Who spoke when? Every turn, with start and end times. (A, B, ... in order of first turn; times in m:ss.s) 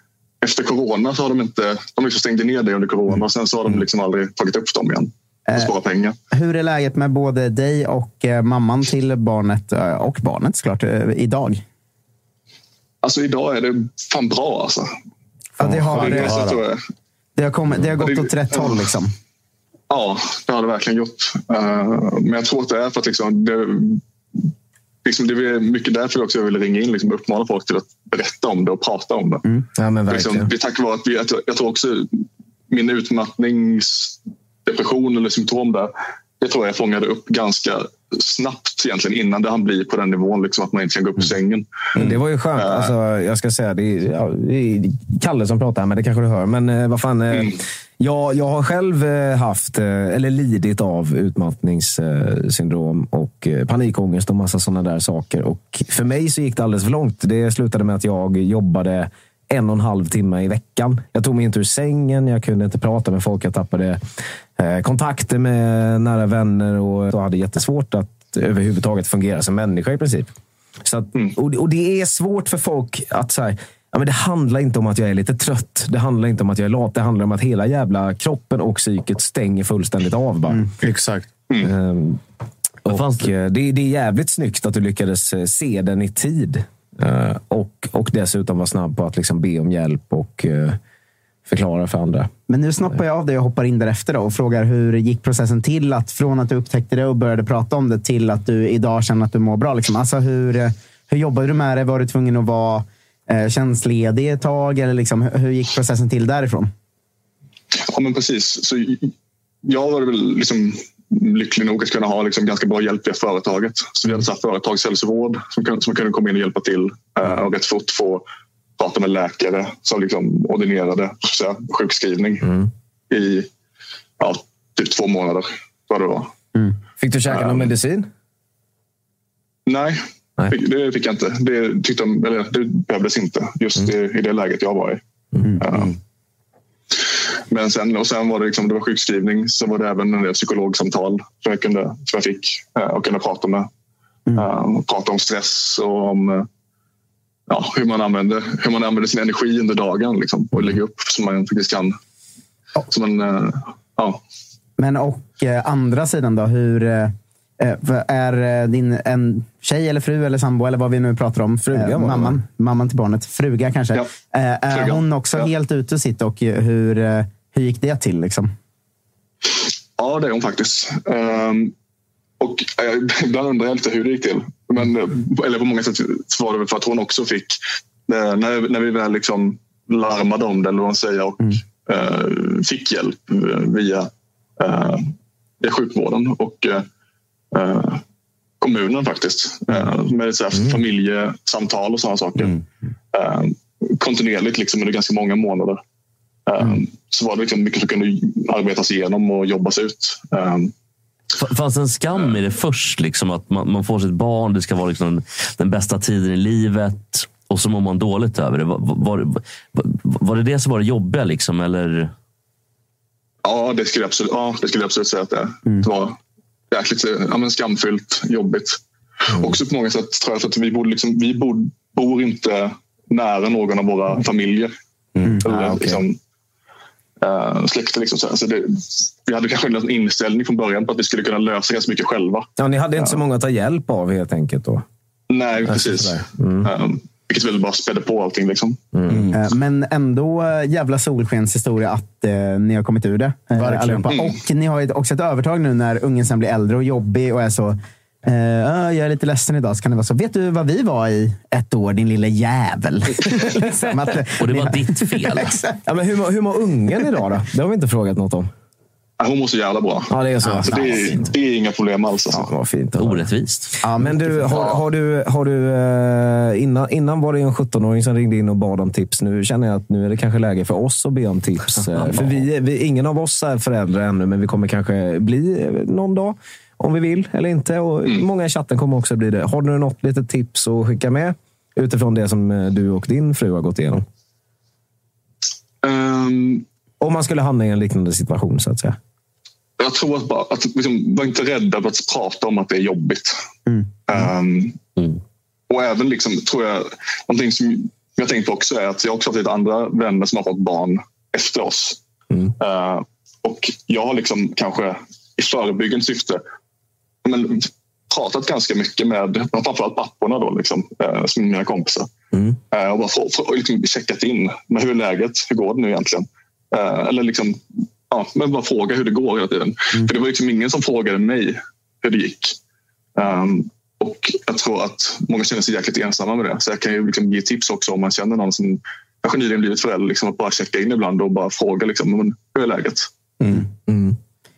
0:00.4-0:06.2 A
0:06.3-0:11.6 B
0:13.0-0:14.9 A
0:15.6-0:16.6 B
0:15.6-0:16.5 C
0:15.9-0:16.8 A
0:17.4-0:19.1 B
0:18.0-0:18.9 A
0:19.9-0:24.4 A
0:25.0-0:29.4 A
0:29.8-0:30.5 D
0:30.1-0:41.7 A
0:42.0-1:04.0 D
0:42.5-0:42.9 A
0:47.3-0:47.6 A
1:04.6-1:10.3 D
1:10.8-1:20.7 D
1:20.8-1:21.3 C
1:21.6-1:22.2 D
1:22.8-1:30.8 D
1:22.9-1:23.2 E
1:31.4-1:32.3 D
1:32.5-1:46.7 B
1:47.9-1:49.1 A
1:49.6-1:58.2 A
1:58.8-2:02.5 A
2:02.4-2:02.7 D
2:03.1-2:03.5 A
2:04.2-2:06.3 A
2:07.0-2:08.1 D
2:07.3-2:07.7 A
2:09.6-2:15.0 A
2:15.6-2:15.9 A
2:16.9-2:23.7 A
2:24.3-2:26.5 A
2:27.5-2:32.0 A
2:32.9-2:34.2 A
2:34.8-2:48.5 B
2:41.7-2:42.4 D
2:44.7-2:45.5 A
2:50.0-2:51.7 A
2:52.4-2:57.5 A
2:58.1-3:05.0 A
3:05.6-3:06.8 A
3:07.5-3:08.0 A
3:08.6-3:12.6 A
3:13.1-3:15.8 A
3:16.4-3:20.7 A
3:21.4-3:32.1 E
3:33.4-3:36.2 A
3:36.7-3:38.8 A
3:39.3-3:44.7 A
3:45.2-3:46.0 D
3:45.4-3:46.2 A
3:47.2-3:53.2 A
3:52.6-3:54.8 D
3:55.3-3:58.8 A
3:55.6-3:56.7 D
3:58.9-3:59.3 D
3:59.1-3:59.3 C
3:59.3-4:15.8 B
4:03.6-4:04.0 C
4:04.1-4:04.4 A
4:14.4-4:15.6 E
4:15.9-4:18.5 D
4:19.2-4:22.5 A
4:20.1-4:21.3 D
4:20.6-4:21.1 B
4:22.3-4:23.4 D
4:23.0-4:23.7 E
4:23.8-4:24.7 B
4:24.0-4:44.0 D
4:24.4-4:24.8 A
4:45.8-4:46.6 A
4:47.0-4:49.0 D
4:49.8-4:53.3 A
4:54.1-4:54.8 A
4:55.7-5:02.0 A
5:02.6-5:06.4 A
5:07.2-5:12.1 A
5:12.3-5:12.6 D
5:12.7-5:22.6 A
5:23.2-5:33.1 A
5:33.9-5:34.1 D